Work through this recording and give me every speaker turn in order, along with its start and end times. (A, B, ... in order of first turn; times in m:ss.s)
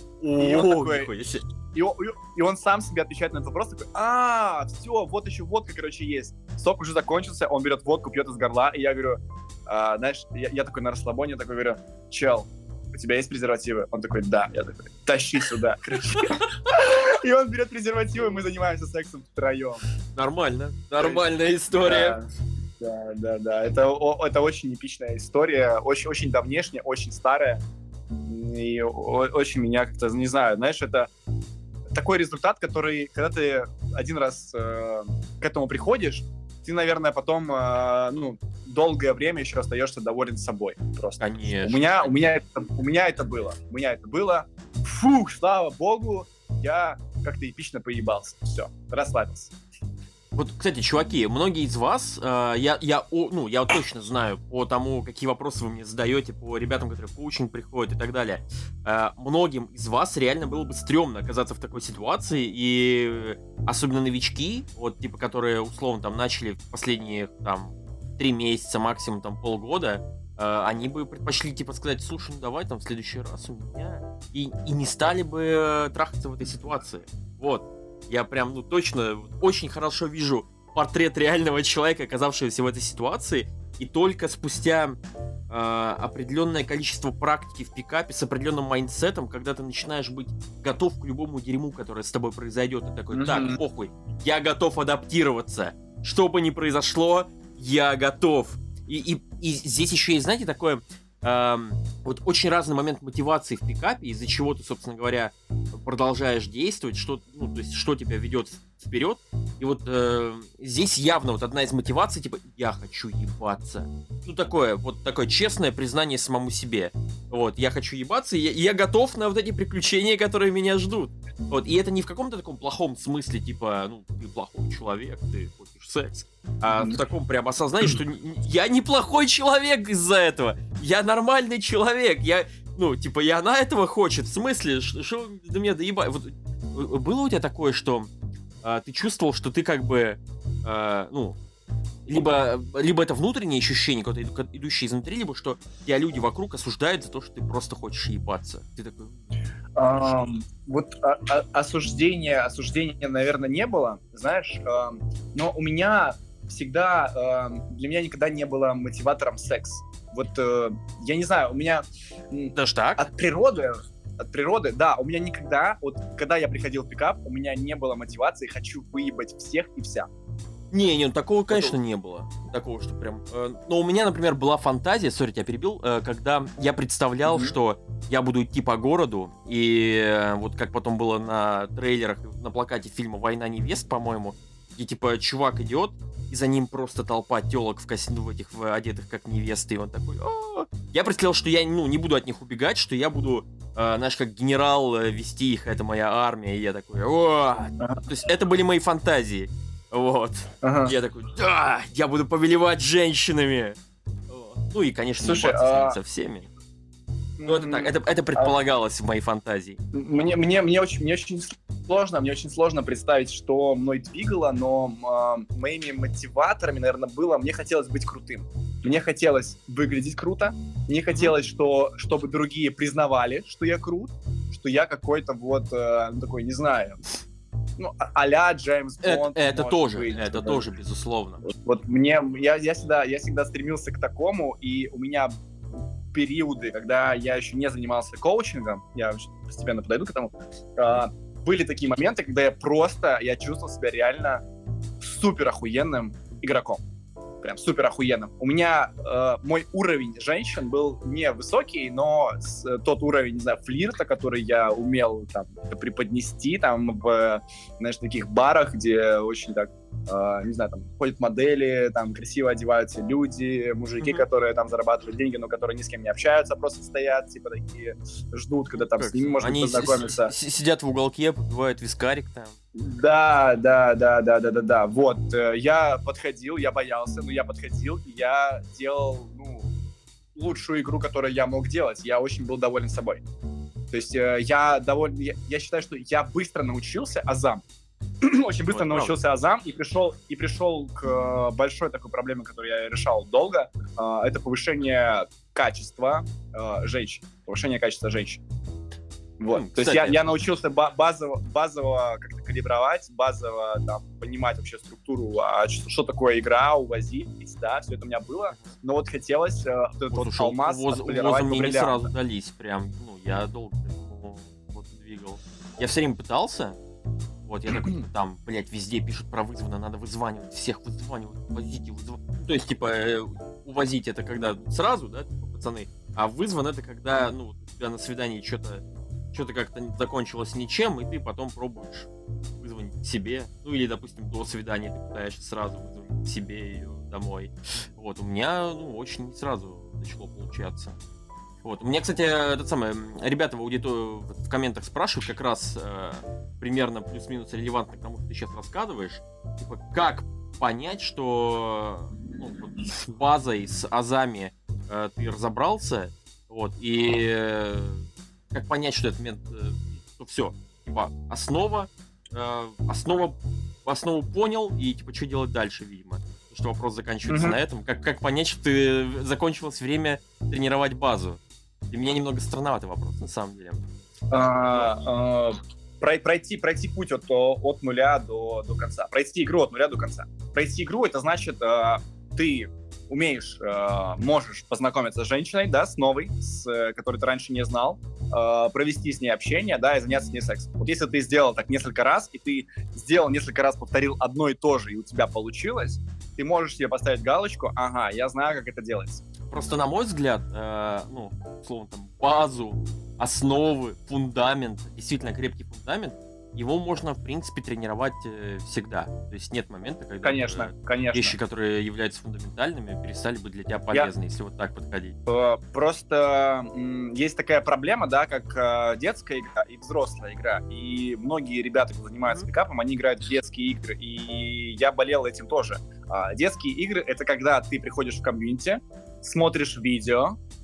0:00.2-0:01.4 A
0:00.4-0:01.1 B
0:01.7-0:19.8 B
0:20.2-0:22.2 A
0:21.0-0:21.2 B
0:21.7-0:22.2 B
0:22.8-0:27.6 B
0:28.2-0:31.1 B
0:31.9-0:49.5 B
0:41.2-0:41.9 A
0:50.4-1:25.0 A
1:25.5-2:18.1 A
1:33.1-1:33.6 B
2:18.6-2:21.4 A
2:22.1-2:29.2 A
2:29.8-2:50.1 B
2:42.6-2:43.1 A
2:50.7-3:23.8 A
2:57.3-2:57.6 B
3:20.6-3:20.9 B
3:24.3-3:26.5 A
3:25.2-3:26.0 B
3:27.4-3:28.5 B
3:27.4-3:29.8 A
3:29.9-3:47.0 B
3:47.8-3:50.6 B
3:49.0-3:51.4 A
3:51.4-3:55.4 B
3:56.1-4:04.4 B
4:05.0-4:06.8 B
4:07.4-4:30.3 B
4:24.0-4:24.2 A
4:28.7-4:32.6 A
4:32.8-4:39.7 B
4:40.4-4:43.2 B
4:43.9-4:47.6 B
4:48.2-4:58.4 B
4:48.7-4:49.2 A
4:59.4-5:12.1 B
4:59.5-5:00.2 A
5:10.1-5:16.8 A
5:17.4-5:41.0 A
5:17.7-5:18.0 B
5:41.6-6:11.4 A
6:07.3-6:07.6 B
6:11.9-6:13.8 A
6:14.3-6:39.2 B
6:14.5-6:14.9 A
6:39.5-6:55.2 A
6:50.2-6:51.4 B
6:55.3-7:10.4 B